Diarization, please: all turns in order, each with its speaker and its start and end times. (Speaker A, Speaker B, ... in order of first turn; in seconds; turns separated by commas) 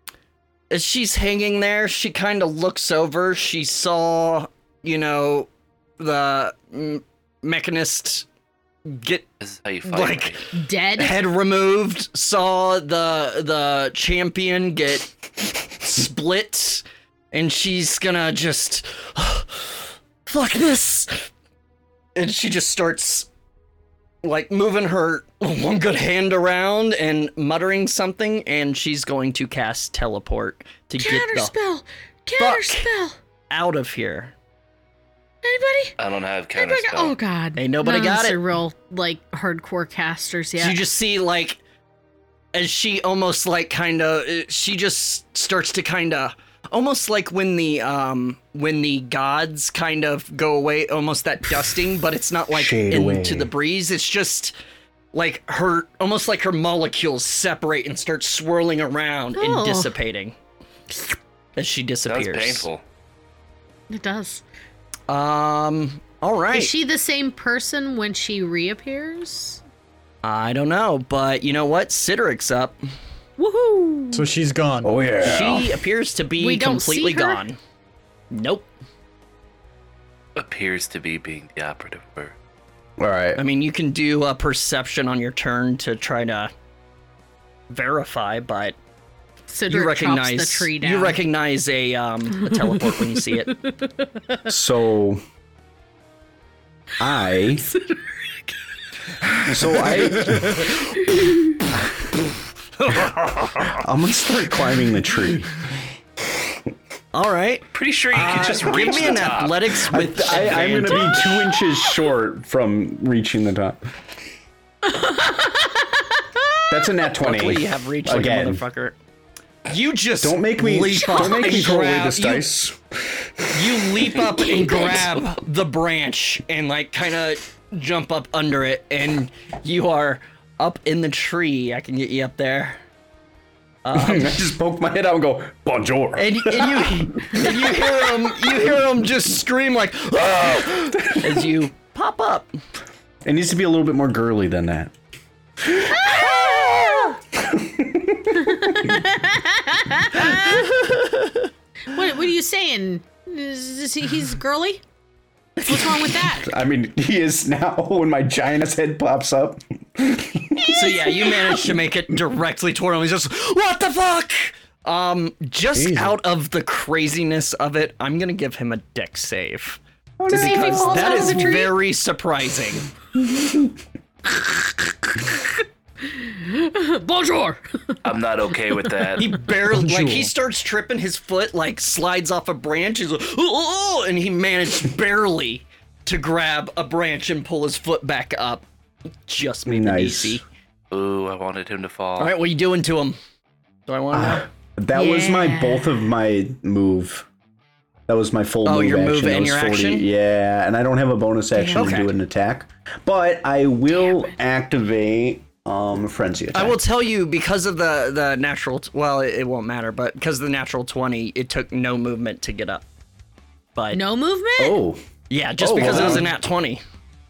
Speaker A: 0.7-5.5, Speaker A: 6.0-8.3, Speaker A: 8.9-9.3, Speaker B: 9.4-10.4, Speaker A: 9.9-21.3, Speaker C: 10.5-11.2, Speaker A: 22.2-23.3, Speaker A: 24.2-31.5, Speaker C: 31.0-33.2, Speaker A: 32.4-32.9, Speaker A: 33.5-34.3, Speaker C: 35.4-36.0, Speaker B: 36.0-37.2, Speaker C: 36.6-40.8, Speaker A: 37.6-38.4, Speaker A: 40.6-41.6, Speaker A: 42.5-54.5, Speaker D: 52.5-53.5, Speaker A: 55.1-60.4, Speaker C: 59.4-59.9, Speaker A: 61.6-62.7, Speaker B: 62.1-62.8, Speaker C: 63.9-64.4, Speaker A: 65.1-66.7, Speaker C: 66.5-69.6, Speaker A: 70.2-72.8, Speaker C: 73.4-74.3, Speaker E: 74.1-74.9, Speaker D: 74.8-75.8, Speaker A: 75.2-77.6, Speaker C: 76.4-77.4, Speaker A: 78.3-78.7, Speaker B: 80.4-82.3, Speaker D: 83.0-83.4, Speaker A: 83.4-86.5, Speaker A: 87.7-88.8, Speaker C: 89.5-91.2, Speaker A: 89.7-93.5, Speaker C: 92.3-94.5, Speaker D: 94.5-95.2, Speaker D: 97.0-97.7, Speaker C: 97.6-98.4, Speaker D: 99.5-100.7, Speaker C: 100.7-101.6, Speaker A: 102.8-103.8, Speaker D: 103.6-105.6, Speaker A: 107.1-111.2, Speaker B: 107.7-109.6, Speaker D: 109.7-113.9, Speaker C: 111.0-111.6, Speaker C: 114.9-116.5, Speaker D: 116.7-118.6, Speaker A: 117.2-119.0, Speaker A: 119.7-122.5, Speaker D: 120.2-124.2, Speaker C: 121.0-121.7, Speaker A: 123.5-132.8, Speaker C: 124.4-125.1, Speaker A: 133.8-134.5, Speaker D: 133.9-138.7, Speaker A: 136.2-142.6, Speaker D: 140.3-141.6, Speaker D: 143.2-144.9, Speaker D: 145.6-149.0, Speaker C: 145.9-147.2, Speaker C: 148.4-150.8, Speaker A: 150.2-151.5, Speaker C: 151.9-154.8, Speaker A: 155.6-155.9, Speaker C: 155.7-156.5, Speaker D: 156.3-161.2, Speaker A: 160.7-172.9, Speaker C: 160.8-161.3, Speaker E: 165.7-166.2, Speaker D: 170.2-171.2, Speaker C: 170.3-171.8, Speaker E: 170.9-171.3, Speaker D: 173.3-173.6, Speaker C: 176.0-178.0, Speaker B: 178.0-179.4, Speaker A: 179.2-188.7, Speaker E: 179.6-180.3, Speaker A: 189.3-190.4, Speaker D: 189.7-190.4, Speaker B: 190.9-192.3, Speaker A: 192.2-193.2, Speaker A: 193.9-194.5, Speaker D: 194.1-197.3, Speaker C: 194.9-196.1, Speaker D: 198.1-206.8, Speaker A: 198.7-200.1, Speaker C: 201.5-202.0, Speaker A: 201.8-202.2, Speaker C: 204.0-204.3, Speaker A: 206.5-212.8, Speaker A: 213.8-214.0, Speaker C: 213.9-214.8, Speaker D: 214.6-215.0, Speaker A: 215.3-216.8, Speaker D: 215.6-216.3, Speaker E: 215.8-216.2